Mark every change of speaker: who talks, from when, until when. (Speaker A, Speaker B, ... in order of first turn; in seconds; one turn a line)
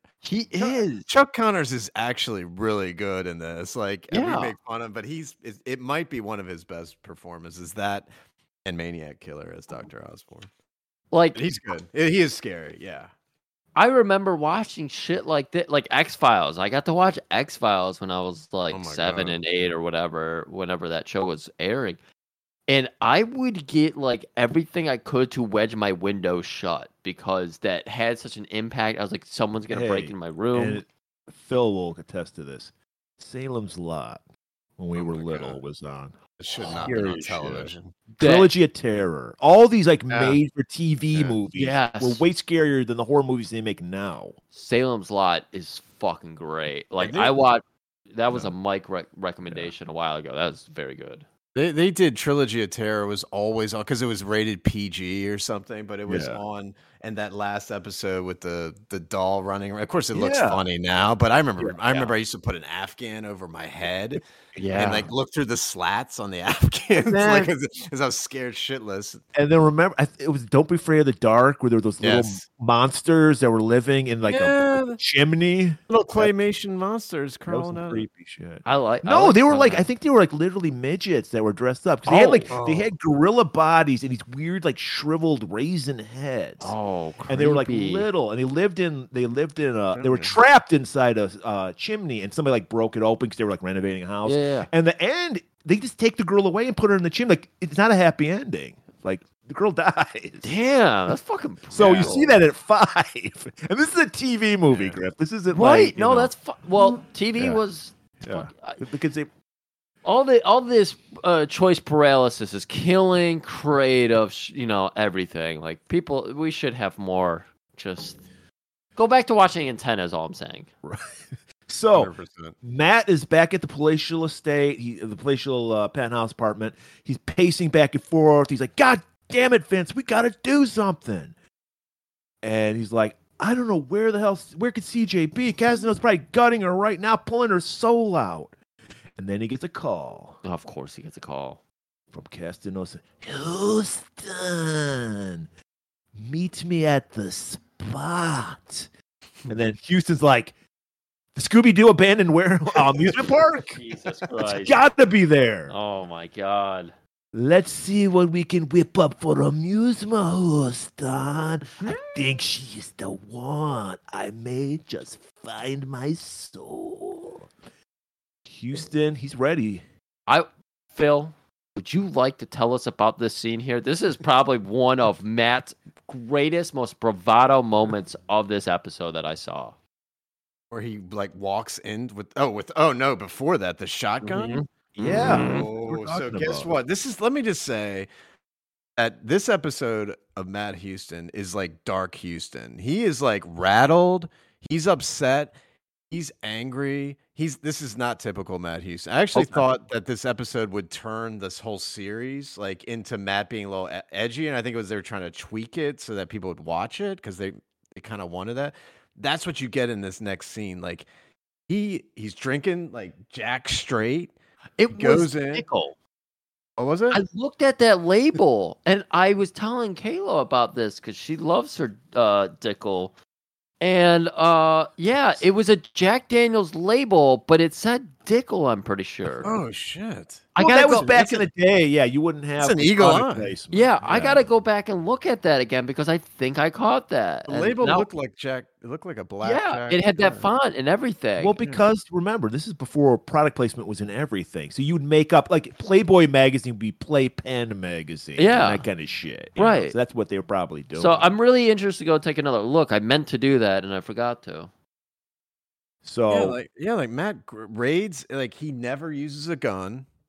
Speaker A: 0.2-1.1
Speaker B: 0.6-8.1
Speaker A: 4.1-4.5
Speaker B: 8.6-10.5
Speaker A: 11.1-11.4
Speaker B: 11.3-13.1
Speaker A: 13.8-22.0
Speaker B: 18.7-19.4
Speaker A: 22.7-30.8
Speaker C: 29.7-34.2
Speaker C: 34.8-36.1
Speaker B: 34.9-35.6
Speaker B: 36.4-37.9
Speaker C: 36.7-44.4
Speaker A: 38.2-38.5
Speaker B: 40.1-40.4
Speaker A: 41.5-42.2
Speaker A: 44.5-51.2
Speaker B: 47.0-47.3
Speaker B: 51.5-64.2
Speaker C: 56.1-56.4
Speaker C: 60.1-60.6
Speaker C: 61.6-62.0
Speaker A: 64.6-65.1
Speaker B: 64.7-69.2
Speaker C: 66.9-67.5
Speaker C: 69.3-76.3
Speaker B: 72.0-72.4
Speaker B: 74.3-75.0
Speaker B: 75.9-78.0
Speaker C: 77.5-86.7
Speaker A: 78.6-79.8
Speaker A: 82.0-82.5
Speaker B: 82.5-82.9
Speaker A: 86.6-88.1
Speaker C: 87.3-100.5
Speaker B: 89.9-90.3
Speaker A: 94.2-94.7
Speaker A: 100.4-102.4
Speaker C: 101.7-106.3
Speaker B: 104.7-105.0
Speaker A: 105.5-108.8
Speaker C: 107.3-107.6
Speaker C: 108.2-109.3
Speaker A: 110.0-118.2
Speaker A: 119.0-120.7
Speaker C: 120.8-131.3
Speaker B: 121.9-122.5
Speaker C: 132.4-138.5
Speaker C: 139.2-140.4
Speaker A: 140.4-141.6
Speaker C: 142.1-145.5
Speaker C: 146.1-148.9
Speaker C: 149.5-150.5
Speaker C: 151.3-153.8
Speaker A: 153.7-154.8
Speaker C: 154.4-155.7
Speaker A: 155.7-156.9
Speaker C: 157.3-167.5
Speaker C: 168.4-169.8
Speaker A: 170.3-179.7
Speaker B: 180.7-184.6
Speaker A: 184.2-185.7
Speaker C: 185.0-186.7
Speaker B: 185.2-188.1
Speaker B: 189.0-195.5
Speaker B: 196.1-211.1
Speaker A: 199.3-199.6
Speaker B: 211.7-214.3
Speaker A: 214.8-215.9
Speaker B: 214.9-215.7
Speaker B: 216.8-217.2
Speaker A: 217.1-223.1
Speaker A: 223.8-229.5
Speaker B: 229.4-230.5
Speaker A: 230.6-231.4
Speaker C: 230.6-234.4
Speaker B: 232.6-233.5
Speaker A: 233.7-238.1
Speaker B: 237.5-240.4
Speaker A: 239.4-241.6
Speaker C: 241.4-251.3
Speaker A: 248.4-248.8
Speaker A: 249.6-249.9
Speaker A: 250.9-254.7
Speaker C: 256.0-256.6
Speaker B: 256.3-260.1